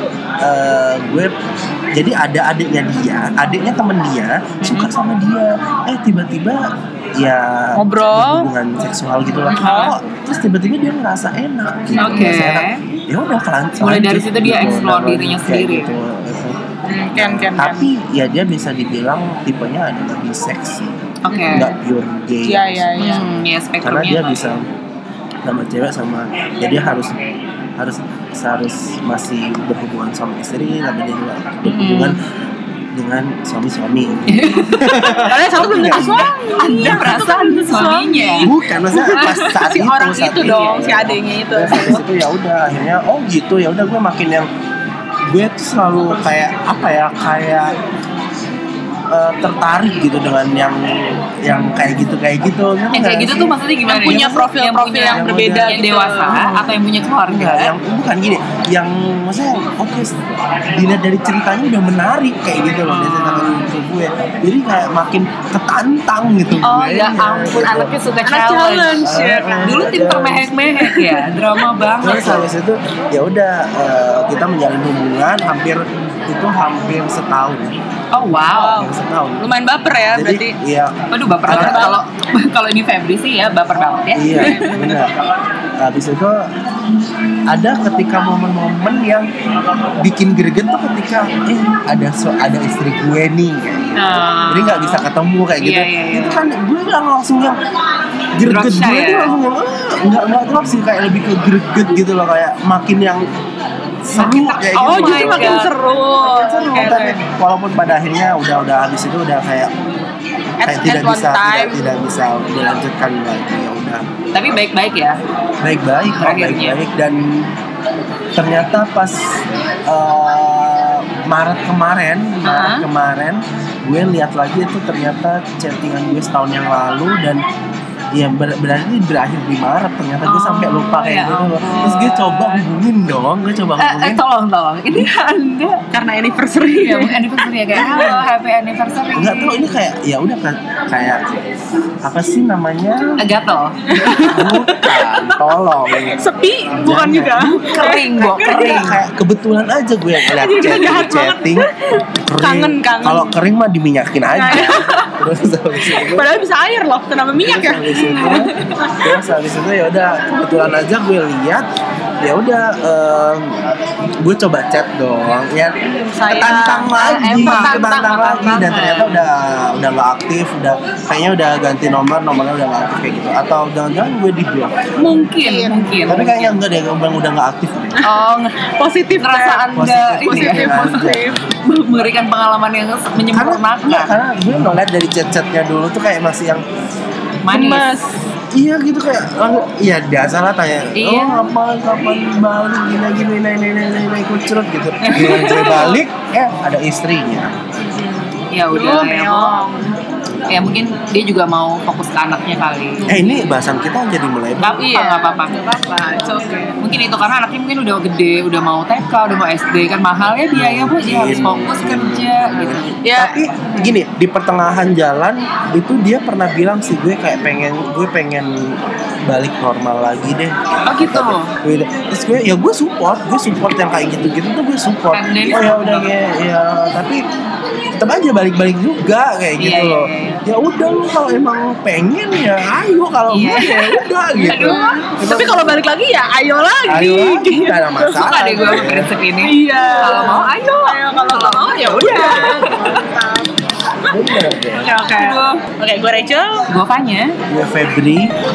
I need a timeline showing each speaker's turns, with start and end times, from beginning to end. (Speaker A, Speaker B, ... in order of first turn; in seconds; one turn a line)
Speaker A: 0.4-1.3
Speaker A: 1.9-6.6
Speaker A: 7.2-16.6
Speaker B: 7.8-8.5
Speaker B: 9.5-9.9
Speaker C: 12.0-12.8
Speaker C: 13.8-15.9
Speaker B: 16.9-17.9
Speaker A: 17.1-21.0
Speaker C: 21.2-21.7
Speaker B: 21.3-21.7
Speaker A: 21.5-24.6
Speaker B: 22.4-23.2
Speaker C: 23.0-24.3
Speaker A: 25.4-27.2
Speaker A: 27.8-32.2
Speaker C: 31.6-32.2
Speaker A: 32.9-36.2
Speaker C: 34.3-39.5
Speaker B: 35.2-42.0
Speaker A: 36.9-37.1
Speaker A: 38.4-44.5
Speaker A: 45.3-47.7
Speaker A: 49.1-54.4
Speaker C: 52.9-57.7
Speaker B: 53.9-56.6
Speaker A: 55.1-55.8
Speaker A: 57.3-67.9
Speaker C: 62.8-63.7
Speaker C: 66.6-69.1
Speaker B: 68.2-70.0
Speaker A: 69.0-70.6
Speaker C: 69.6-72.5
Speaker B: 70.8-71.3
Speaker A: 72.0-77.8
Speaker C: 78.1-78.8
Speaker B: 78.5-80.5
Speaker A: 78.8-79.4
Speaker A: 80.1-82.0
Speaker C: 81.1-84.7
Speaker B: 81.5-82.0
Speaker A: 84.1-85.1
Speaker B: 84.4-85.0
Speaker A: 85.8-86.5
Speaker A: 87.5-89.3
Speaker A: 90.0-97.6
Speaker C: 94.0-95.0
Speaker C: 95.6-96.4
Speaker A: 98.3-103.2
Speaker C: 98.4-99.4
Speaker A: 104.0-105.6
Speaker C: 104.1-105.7
Speaker B: 104.7-107.2
Speaker A: 106.2-109.8
Speaker B: 110.6-111.8
Speaker A: 110.6-114.0
Speaker C: 114.3-115.2
Speaker A: 115.6-117.5
Speaker C: 116.1-116.8
Speaker A: 118.3-127.4
Speaker C: 122.4-122.8
Speaker A: 128.1-134.2
Speaker C: 130.2-132.7
Speaker C: 133.8-135.8
Speaker B: 135.9-138.2
Speaker C: 136.8-139.8
Speaker A: 139.1-141.2
Speaker A: 142.0-143.2
Speaker C: 143.2-144.2
Speaker B: 143.9-149.0
Speaker A: 144.1-151.7
Speaker C: 147.7-149.0
Speaker B: 150.2-153.3
Speaker A: 152.2-156.3
Speaker B: 154.3-155.2
Speaker B: 155.8-159.1
Speaker A: 157.4-161.6
Speaker A: 162.2-163.7
Speaker A: 164.2-175.2
Speaker B: 165.8-168.0
Speaker C: 166.9-169.3
Speaker C: 175.0-176.5
Speaker B: 175.4-176.0
Speaker A: 176.1-178.0
Speaker B: 178.0-181.3
Speaker C: 179.2-181.1
Speaker A: 179.7-181.4
Speaker C: 181.6-184.1
Speaker A: 183.3-186.6
Speaker C: 187.4-187.9
Speaker B: 187.5-188.2
Speaker A: 188.5-197.5
Speaker C: 190.9-191.5
Speaker C: 195.0-195.9
Speaker B: 195.3-195.9
Speaker B: 197.8-199.9
Speaker C: 198.5-199.6
Speaker C: 200.5-203.5
Speaker A: 203.1-204.7
Speaker C: 204.6-205.5
Speaker B: 204.7-206.8
Speaker C: 206.8-212.9
Speaker A: 210.5-227.2
Speaker B: 213.0-214.0
Speaker C: 220.8-221.5
Speaker C: 225.1-226.1
Speaker A: 228.0-235.8
Speaker C: 229.6-230.4
Speaker C: 233.3-235.1
Speaker B: 234.4-238.9
Speaker A: 236.9-239.1
Speaker C: 238.2-243.0
Speaker B: 239.4-243.5
Speaker A: 244.1-244.9
Speaker B: 244.7-246.7
Speaker C: 245.1-245.6
Speaker C: 246.7-247.3
Speaker A: 247.5-248.3